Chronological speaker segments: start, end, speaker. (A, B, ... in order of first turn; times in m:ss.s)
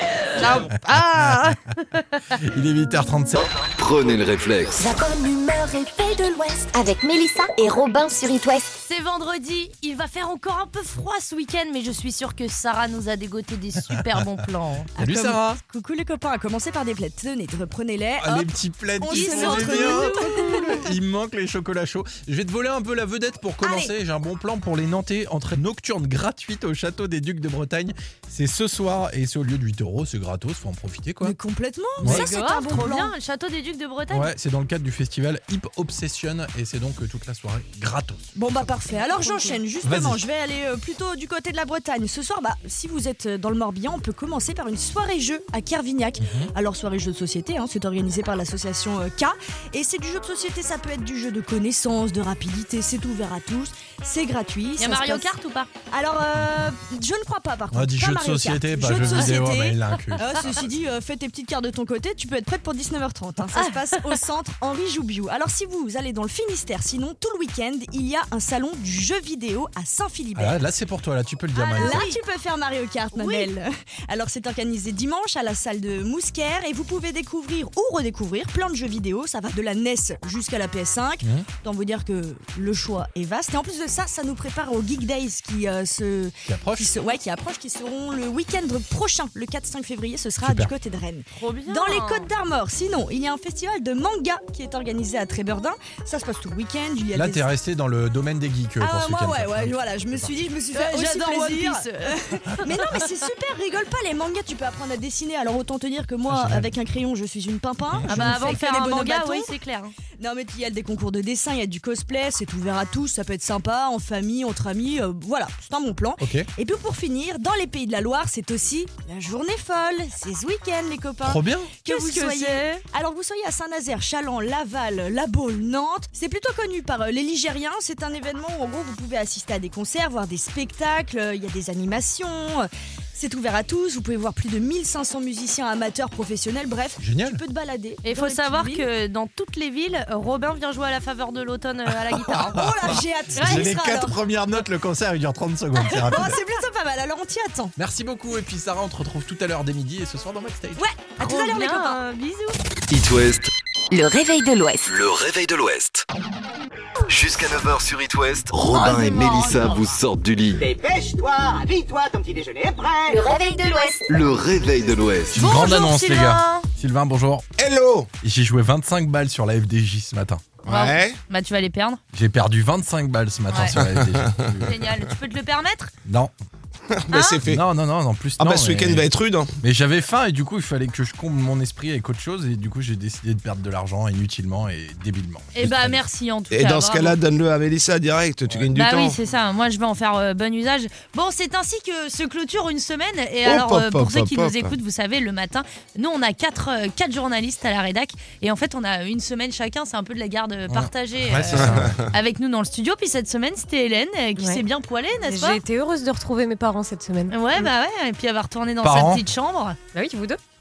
0:00.4-0:02.3 A
0:00.7-0:01.6 B
0:02.3-0:03.4 B
0:03.4-0:04.8 C
0:04.8-0:08.7 D
0:08.8-0:14.9 A
0:13.9-0:14.2 B
0:15.0-0:15.6 B
0:15.0-0:20.9 E
0:18.2-0:31.4 B
0:19.1-0:20.8 A
0:23.6-0:23.9 E
0:31.2-0:33.1 E
0:32.0-0:34.3 A
0:34.1-0:38.4 B
0:38.4-0:55.3 E
0:38.9-0:39.6 A
0:39.8-0:40.2 B
0:46.2-0:46.5 B
0:54.8-0:55.7 A
0:55.9-1:10.6 E
0:57.7-1:00.6 B
1:03.6-1:04.2 A
1:10.4-1:12.0 B
1:11.6-1:12.2 A
1:11.8-1:37.5 E
1:13.1-1:13.5 A
1:26.5-1:27.0 B
1:30.4-1:30.7 B
1:31.3-1:32.3 A
1:37.1-1:40.3 B
1:38.8-1:49.5 E
1:40.7-1:43.1 A
1:46.3-1:46.7 B
1:47.9-1:48.4 B
1:48.1-1:49.9 A
1:50.2-2:18.8 E
1:56.2-1:56.5 B
2:01.2-2:01.7 B
2:01.9-2:02.7 A
2:17.0-2:17.4 B
2:18.0-2:22.6 A
2:22.1-2:26.4 B
2:22.5-2:24.2 E
2:23.4-2:23.7 A
2:25.8-2:27.7 E
2:27.8-2:30.8 B
2:30.8-2:32.0 E
2:31.2-2:32.6 A
2:32.9-2:33.5 C
2:33.9-2:34.9 D
2:34.9-2:36.0 C
2:37.1-2:40.7 C
2:38.8-2:39.2 A
2:40.6-2:43.2 F
2:43.1-2:44.1 D
2:44.1-2:45.5 C
2:45.3-2:47.5 B
2:45.4-2:46.7 A
2:47.6-2:48.1 G
2:48.2-2:50.5 B
2:50.6-2:51.2 G
2:50.7-2:52.0 A
2:52.1-2:54.8 B
2:53.5-2:53.8 A
2:53.8-2:54.4 G
2:54.6-2:55.9 A
2:56.0-2:56.3 B
2:56.9-2:57.7 G
2:57.1-2:57.4 A
2:57.4-2:59.1 B
2:58.4-2:59.6 G
2:59.6-3:06.0 B
3:05.6-3:07.2 A
3:06.5-3:09.2 G
3:08.8-3:25.6 A
3:13.4-3:14.7 G
3:20.7-3:22.0 B
3:21.6-3:21.9 G
3:24.4-3:24.6 H
3:25.2-3:27.7 H
3:27.3-3:29.8 A
3:28.8-3:29.2 B
3:29.9-3:30.4 H